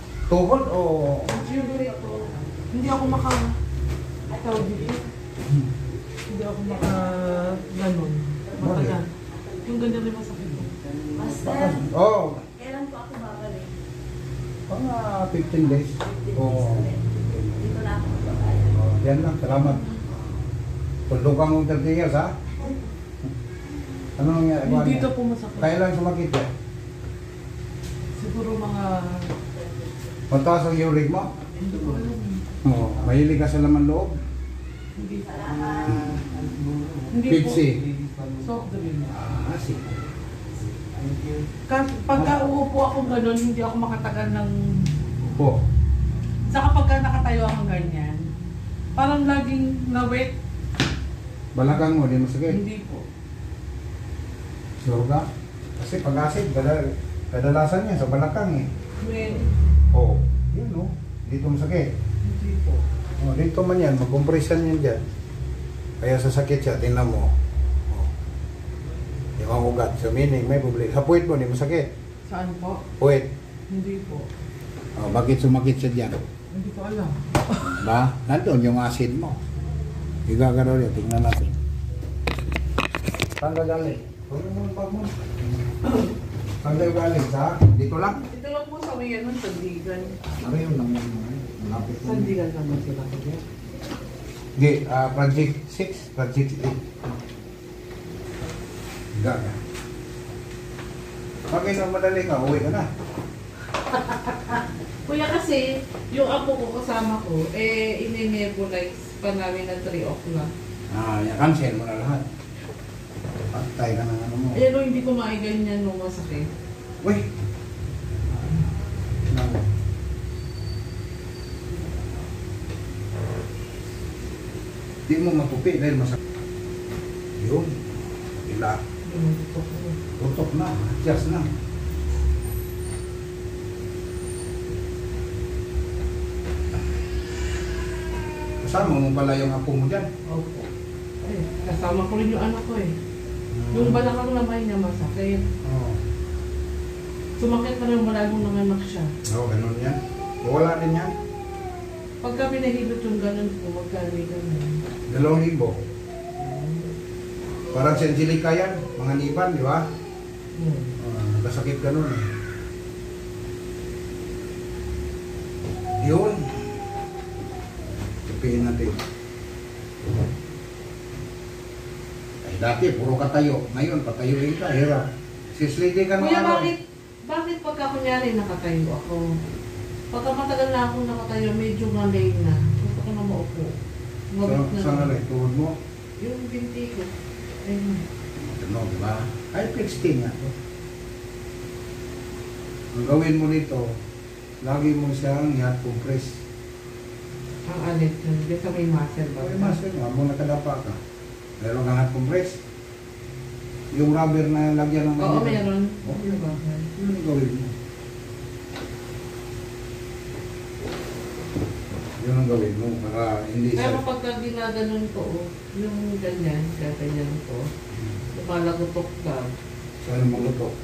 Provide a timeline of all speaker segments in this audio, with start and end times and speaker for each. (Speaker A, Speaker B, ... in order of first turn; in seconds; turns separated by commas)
Speaker A: 0.3-1.3, Speaker B: 1.3-3.5, Speaker B: 4.3-5.0, Speaker B: 6.3-9.1, Speaker A: 8.6-9.0, Speaker B: 9.6-10.8, Speaker C: 11.1-11.7, Speaker A: 11.4-12.4, Speaker C: 12.6-13.7, Speaker A: 14.7-19.9, Speaker C: 17.7-18.6, Speaker A: 21.1-22.3, Speaker A: 24.1-26.5, Speaker B: 24.6-25.7, Speaker B: 28.2-29.3, Speaker A: 30.3-31.3, Speaker B: 31.6-32.4, Speaker A: 32.6-34.1, Speaker B: 35.0-35.3, Speaker C: 35.4-36.2, Speaker A: 35.7-36.2, Speaker B: 37.1-37.7, Speaker A: 37.2-37.9, Speaker B: 38.4-39.1, Speaker A: 39.0-39.9, Speaker B: 41.7-44.6, Speaker A: 42.1-42.5, Speaker A: 45.2-45.6, Speaker B: 46.5-48.3, Speaker B: 49.0-50.3, Speaker A: 51.5-52.6, Speaker B: 52.5-53.0, Speaker A: 54.8-55.2, Speaker A: 55.8-58.7, Speaker B: 59.0-59.5, Speaker A: 59.9-61.9, Speaker B: 62.2-62.8, Speaker A: 63.2-65.0, Speaker A: 66.0-67.3, Speaker A: 69.4-71.9, Speaker B: 72.3-72.8, Speaker A: 73.0-73.3, Speaker B: 73.7-74.3, Speaker A: 75.0-76.2, Speaker B: 76.5-77.7, Speaker A: 77.7-79.4, Speaker A: 80.2-81.5, Speaker A: 83.4-85.5, Speaker A: 86.6-88.2, Speaker B: 88.1-90.2, Speaker A: 90.3-92.3, Speaker B: 92.0-93.4, Speaker A: 94.5-96.9, Speaker A: 99.1-99.6, Speaker A: 101.5-102.9, Speaker B: 103.9-110.5, Speaker A: 110.9-112.2, Speaker A: 113.5-114.6, Speaker B: 114.5-116.5, Speaker A: 119.3-119.7, Speaker A: 125.1-126.2, Speaker A: 127.4-128.8, Speaker B: 129.0-130.0, Speaker A: 130.2-131.5, Speaker A: 138.6-140.1, Speaker B: 140.3-140.7, Speaker B: 141.2-142.9, Speaker A: 143.5-144.1, Speaker B: 143.7-145.4, Speaker A: 145.6-146.0, Speaker B: 147.4-149.1, Speaker A: 149.3-151.1, Speaker B: 152.2-154.8, Speaker A: 155.1-155.7, Speaker B: 156.4-156.9, Speaker A: 157.7-159.8, Speaker B: 160.6-160.9, Speaker A: 161.0-162.3, Speaker A: 166.0-166.7, Speaker A: 168.2-168.9, Speaker A: 172.4-176.7, Speaker B: 176.2-179.4, Speaker B: 180.1-183.7, Speaker B: 184.3-185.2, Speaker A: 184.4-185.7, Speaker B: 186.2-188.0, Speaker A: 188.4-190.5, Speaker A: 192.9-193.8, Speaker A: 194.6-196.4, Speaker B: 197.7-199.8, Speaker A: 199.4-201.0, Speaker A: 201.6-202.6, Speaker A: 203.9-207.7, Speaker B: 205.2-206.9, Speaker A: 212.2-214.0, Speaker B: 213.8-217.6, Speaker B: 218.3-219.5, Speaker A: 220.0-220.7